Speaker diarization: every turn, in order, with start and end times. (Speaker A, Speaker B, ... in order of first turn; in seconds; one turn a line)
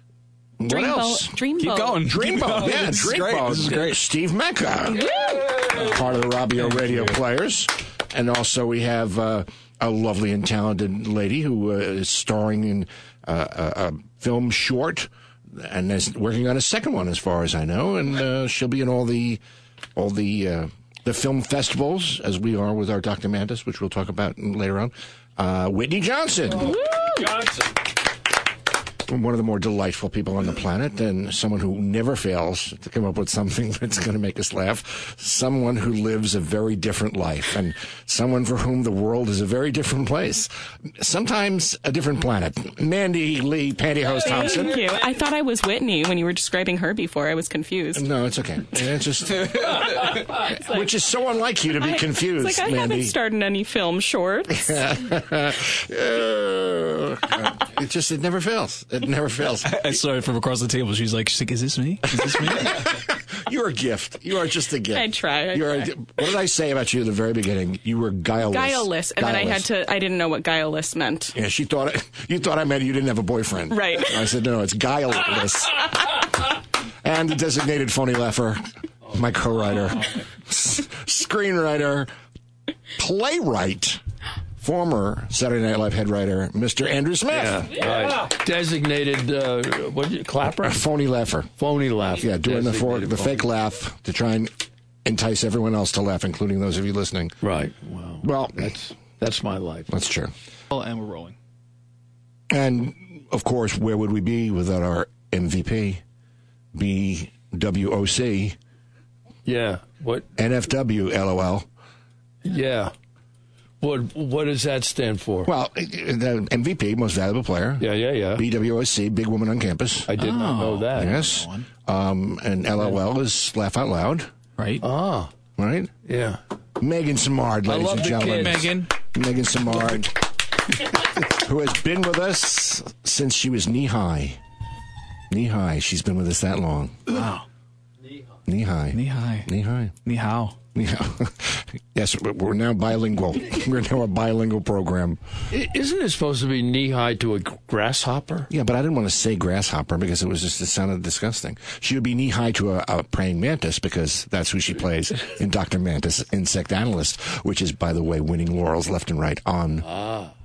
Speaker A: 0.6-1.4
Speaker B: 0.6-2.5
Speaker C: 1.6-4.0
Speaker A: 2.1-5.1
Speaker B: 4.9-5.7
Speaker A: 5.6-19.4
Speaker C: 6.7-7.0
Speaker A: 20.0-26.8
Speaker B: 26.7-27.3
Speaker D: 26.7-27.6
Speaker A: 29.1-44.8
Speaker B: 44.3-48.1
Speaker A: 48.0-53.2
Speaker B: 51.8-54.8
Speaker A: 54.5-60.0
Speaker C: 59.7-62.7
Speaker A: 62.3-69.7
Speaker B: 64.9-66.0
Speaker B: 68.4-71.3
Speaker A: 71.3-76.3
Speaker B: 73.7-74.3
Speaker A: 77.0-82.1
Speaker A: 83.0-84.0
Speaker A: 84.6-87.9
Speaker D: 87.3-90.8
Speaker A: 90.6-91.5
Speaker D: 91.6-93.5
Speaker A: 92.2-94.5
Speaker A: 95.0-97.4
Speaker D: 97.4-99.9
Speaker A: 98.2-98.7
Speaker A: 99.9-100.3
Speaker C: 100.7-101.4
Speaker A: 102.5-106.0
Speaker A: 106.8-108.6
Speaker D: 109.5-110.3
Speaker A: 110.4-111.7
Speaker D: 112.4-112.9
Speaker D: 113.8-115.5
Speaker A: 115.5-120.1
Speaker D: 117.8-118.4
Speaker D: 120.1-121.2
Speaker C: 120.2-121.7
Speaker A: 120.9-124.3
Speaker C: 124.6-124.8
Speaker D: 124.8-125.3
Speaker A: 125.6-125.9
Speaker D: 126.0-126.4
Speaker A: 126.8-130.2
Speaker D: 127.7-128.7
Speaker C: 128.1-128.9
Speaker A: 131.2-134.4
Speaker A: 135.3-137.0
Speaker C: 137.1-137.4
Speaker A: 138.5-139.9
Speaker C: 138.9-139.5
Speaker C: 140.0-140.6
Speaker A: 140.7-145.2
Speaker D: 145.5-148.5
Speaker A: 148.5-159.9
Speaker D: 159.9-160.3